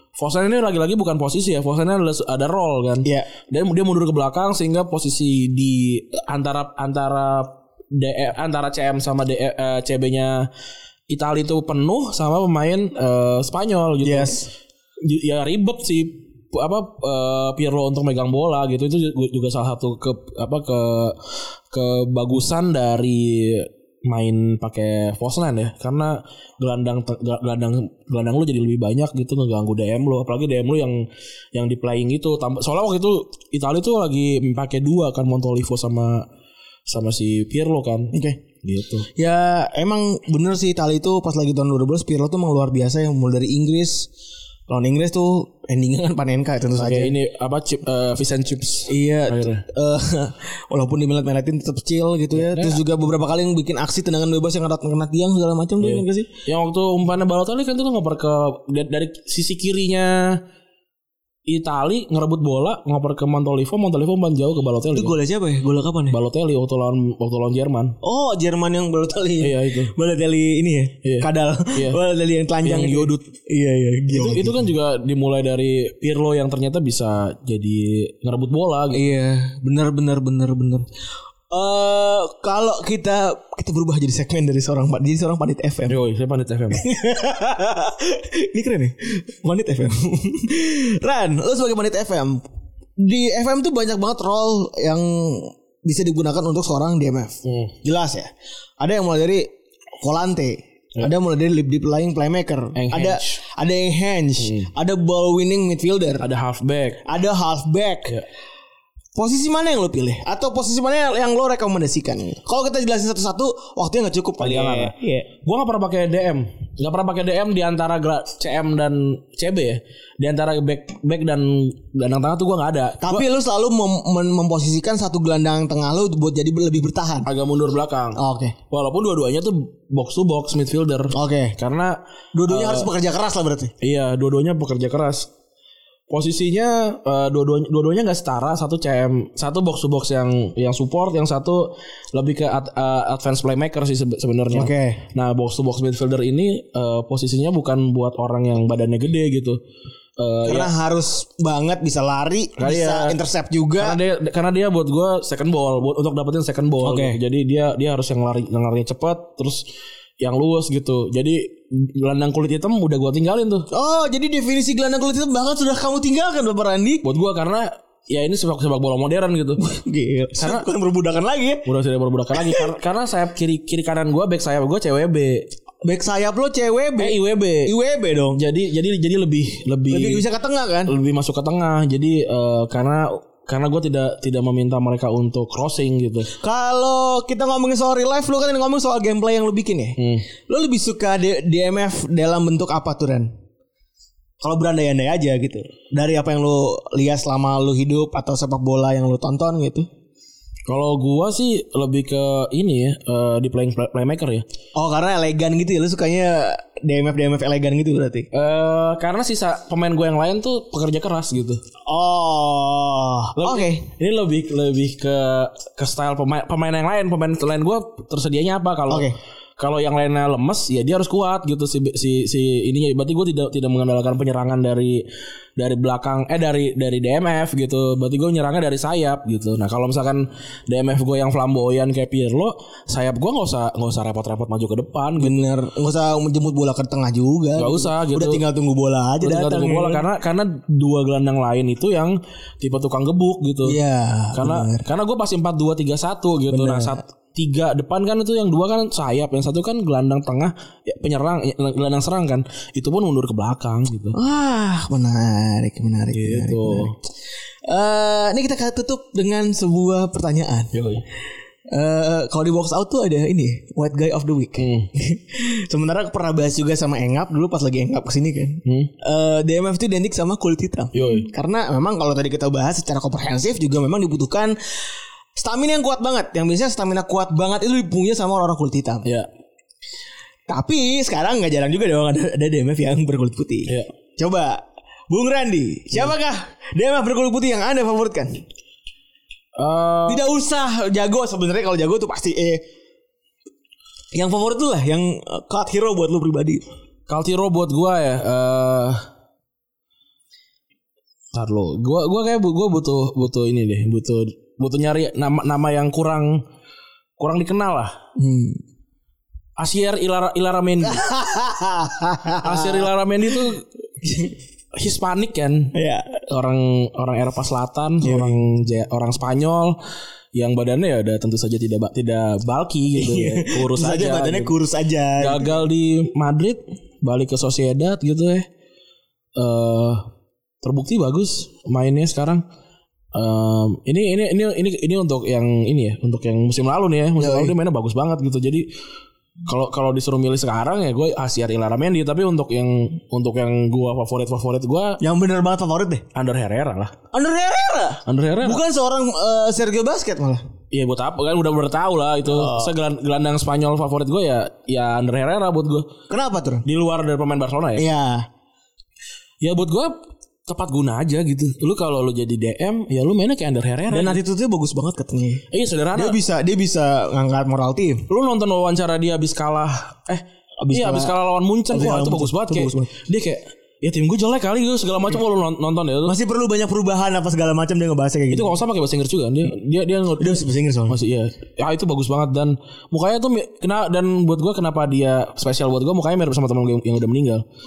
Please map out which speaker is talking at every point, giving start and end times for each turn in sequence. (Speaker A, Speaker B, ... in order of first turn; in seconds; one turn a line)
Speaker A: 0.2-10.5
Speaker A: 11.1-14.5
Speaker B: 14.0-14.4
Speaker A: 15.0-21.2
Speaker A: 21.7-36.2
Speaker A: 36.9-39.1
Speaker B: 38.1-38.4
Speaker B: 39.1-44.1
Speaker B: 44.7-47.1
Speaker A: 46.8-49.6
Speaker B: 48.9-56.3
Speaker A: 52.3-52.8
Speaker A: 55.8-60.4
Speaker A: 61.5-65.1
Speaker B: 64.9-66.2
Speaker A: 66.1-68.0
Speaker B: 68.0-74.7
Speaker A: 69.4-69.9
Speaker A: 71.0-72.0
Speaker A: 72.6-73.1
Speaker A: 74.1-79.0
Speaker B: 78.9-80.9
Speaker B: 81.5-86.0
Speaker A: 85.9-86.8
Speaker B: 86.7-92.5
Speaker B: 93.0-106.2
Speaker A: 97.4-97.7
Speaker A: 102.7-103.4
Speaker A: 104.4-104.7
Speaker A: 106.2-107.0
Speaker B: 107.0-108.1
Speaker B: 109.1-115.3
Speaker A: 114.4-123.2
Speaker B: 123.0-127.3
Speaker A: 127.2-128.2
Speaker B: 128.2-128.5
Speaker A: 128.7-132.9
Speaker B: 131.1-131.6
Speaker B: 132.3-133.7
Speaker A: 133.8-135.3
Speaker A: 136.1-149.6
Speaker B: 144.5-145.0
Speaker A: 150.2-150.7
Speaker B: 150.4-154.0
Speaker A: 152.6-153.2
Speaker A: 153.8-159.6
Speaker B: 156.8-157.2
Speaker A: 160.2-163.7
Speaker B: 163.7-167.0
Speaker A: 167.0-169.6
Speaker B: 169.6-171.6
Speaker A: 170.4-170.7
Speaker A: 171.6-175.4
Speaker B: 172.3-172.7
Speaker B: 175.8-178.4
Speaker A: 177.0-177.7
Speaker A: 178.3-180.2
Speaker B: 179.9-180.9
Speaker A: 180.9-186.3
Speaker B: 186.3-193.3
Speaker A: 190.0-190.2
Speaker B: 194.4-199.9
Speaker A: 200.7-204.4
Speaker B: 204.7-208.3
Speaker A: 208.3-211.6
Speaker B: 211.9-213.9
Speaker A: 213.4-225.0
Speaker B: 218.9-219.2
Speaker A: 225.6-235.4
Speaker B: 235.2-240.0
Speaker A: 237.6-238.4
Speaker A: 239.2-243.8
Speaker B: 243.6-244.8
Speaker A: 244.3-254.2
Speaker B: 246.5-247.0
Speaker B: 254.1-257.0
Speaker A: 256.1-256.9
Speaker B: 257.7-260.7
Speaker A: 260.7-261.0
Speaker B: 261.7-274.5
Speaker A: 264.6-264.9
Speaker A: 268.6-268.9
Speaker A: 270.9-271.3
Speaker B: 275.3-279.1
Speaker B: 280.5-288.4
Speaker A: 289.6-290.2
Speaker B: 290.1-292.6
Speaker B: 294.1-296.6
Speaker A: 297.1-299.0
Speaker A: 301.3-306.4
Speaker A: 307.2-308.0
Speaker B: 308.2-308.6
Speaker A: 309.6-311.0
Speaker B: 310.8-312.9
Speaker A: 312.4-313.6
Speaker B: 314.0-314.3
Speaker A: 314.8-315.7
Speaker B: 315.7-316.2
Speaker A: 316.3-319.8
Speaker B: 318.0-318.4
Speaker A: 320.3-324.5
Speaker B: 323.0-325.5
Speaker A: 325.2-328.5
Speaker A: 329.4-330.0
Speaker A: 330.6-332.4
Speaker A: 333.1-338.6
Speaker B: 337.2-337.5
Speaker A: 339.4-345.0
Speaker B: 345.0-346.0
Speaker A: 346.1-346.9
Speaker B: 347.1-350.4
Speaker A: 348.1-348.6
Speaker A: 350.7-355.9
Speaker B: 352.2-352.7
Speaker B: 356.1-356.6
Speaker A: 356.6-357.9
Speaker B: 357.8-358.3
Speaker A: 359.4-364.2
Speaker B: 363.9-368.1
Speaker A: 365.5-366.2
Speaker A: 368.1-376.1
Speaker B: 370.6-371.1
Speaker B: 371.7-372.9
Speaker B: 376.1-378.5
Speaker A: 378.3-387.4
Speaker B: 380.2-381.0